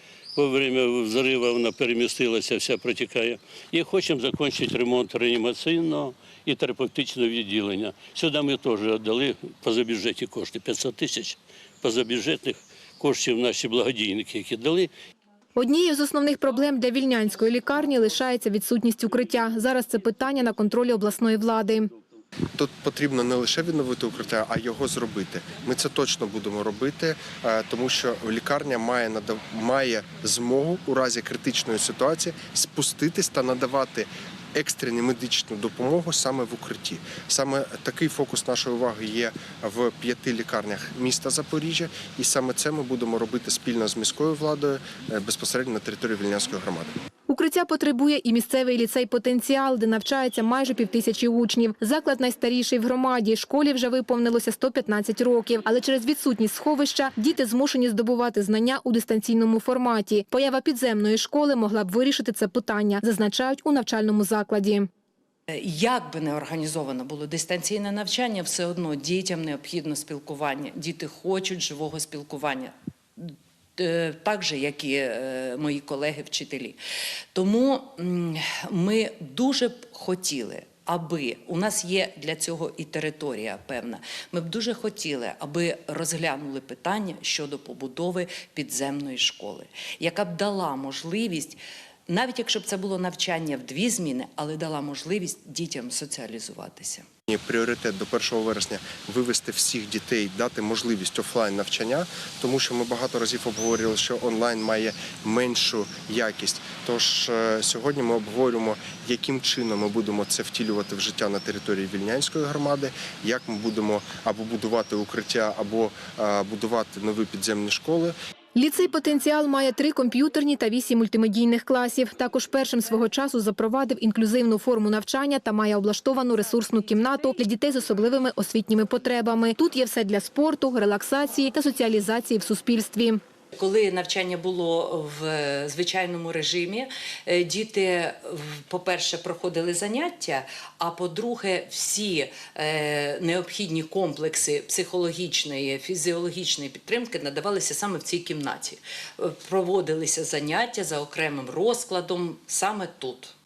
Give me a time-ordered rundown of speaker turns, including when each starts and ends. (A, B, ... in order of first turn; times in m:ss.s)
0:00.4-0:14.9 A
0:15.6-0:21.9 B
0:22.6-0:46.9 C
0:47.3-1:04.9 B
1:05.5-1:16.8 D
1:17.3-1:37.1 D
1:37.3-1:58.2 C
1:58.6-2:13.2 B
2:13.5-2:33.3 D